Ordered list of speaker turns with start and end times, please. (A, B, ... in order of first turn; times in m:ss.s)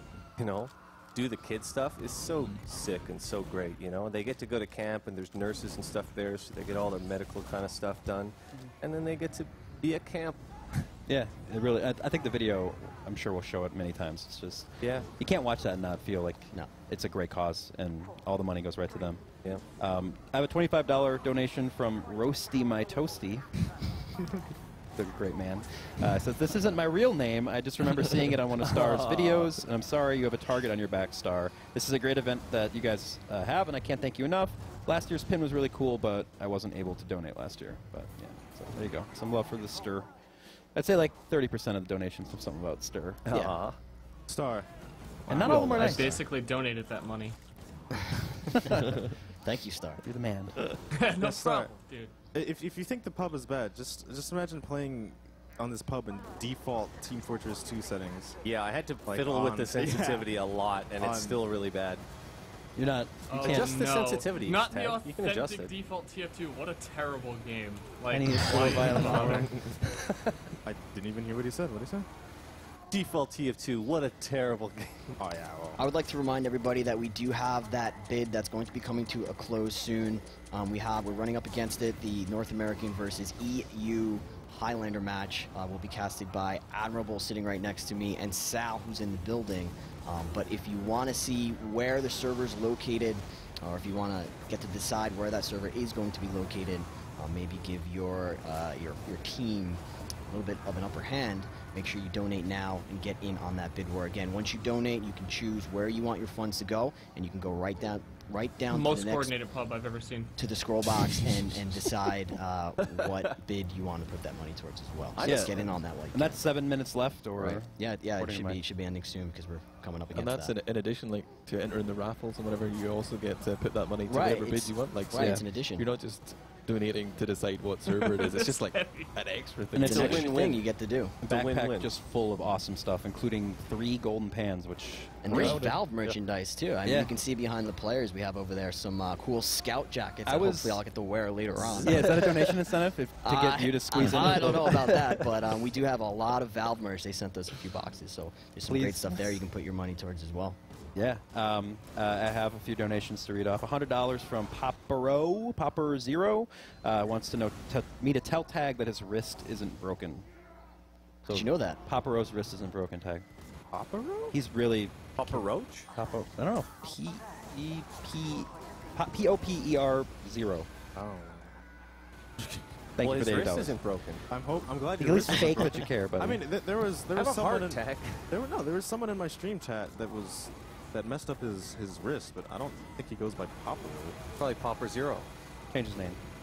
0:00.4-0:10.8 A
0:11.1-0:19.2 B
0:14.8-0:15.1 A
0:19.8-0:23.5 B
0:25.0-0:40.1 B
0:28.7-0:29.5 A
0:40.7-0:43.2 B
0:43.3-0:43.6 C
0:43.3-0:43.8 A
0:44.3-0:44.7 D
0:45.3-0:46.2 D
0:45.3-0:46.2 B
0:45.3-0:46.2 C
0:45.5-0:47.4 E
0:49.4-0:50.0 C
0:50.0-0:50.5 B
0:50.9-0:52.1 E
0:51.2-0:51.7 D
0:52.3-0:58.4 D
0:58.4-1:02.0 A
0:59.0-1:00.3 D
1:01.0-1:01.4 D
1:02.8-1:03.7 B
1:03.3-1:09.7 E
1:03.4-1:05.7 A
1:08.1-1:09.5 B
1:09.2-1:10.3 A
1:10.6-1:12.1 D
1:12.9-1:15.2 A
1:15.2-1:15.8 D
1:15.8-1:49.4 C
1:48.7-1:50.3 E
1:50.4-1:56.4 C
1:55.2-1:55.5 A
1:55.2-1:55.6 B
1:56.1-1:58.6 B
1:57.4-2:00.5 C
2:00.1-2:10.6 F
2:04.1-2:05.8 C
2:05.1-2:05.4 B
2:07.8-2:09.2 E
2:09.7-2:10.6 B
2:09.8-2:11.2 C
2:11.2-2:15.6 B
2:11.2-2:11.9 A
2:15.2-2:22.5 C
2:15.3-2:15.8 F
2:16.8-2:17.1 B
2:20.2-2:20.8 B
2:21.8-2:25.2 B
2:23.2-2:30.6 C
2:28.6-2:29.4 B
2:30.9-2:40.2 B
2:41.3-2:43.2 B
2:41.3-2:41.8 C
2:43.7-2:44.3 D
2:44.3-2:50.7 B
2:45.2-2:45.9 A
2:50.9-2:51.5 D
2:53.0-2:53.8 B
2:53.0-2:54.2 A
2:54.3-3:04.3 D
2:55.0-2:56.4 B
2:57.1-2:58.3 A
3:04.4-3:05.3 A
3:05.7-3:06.2 B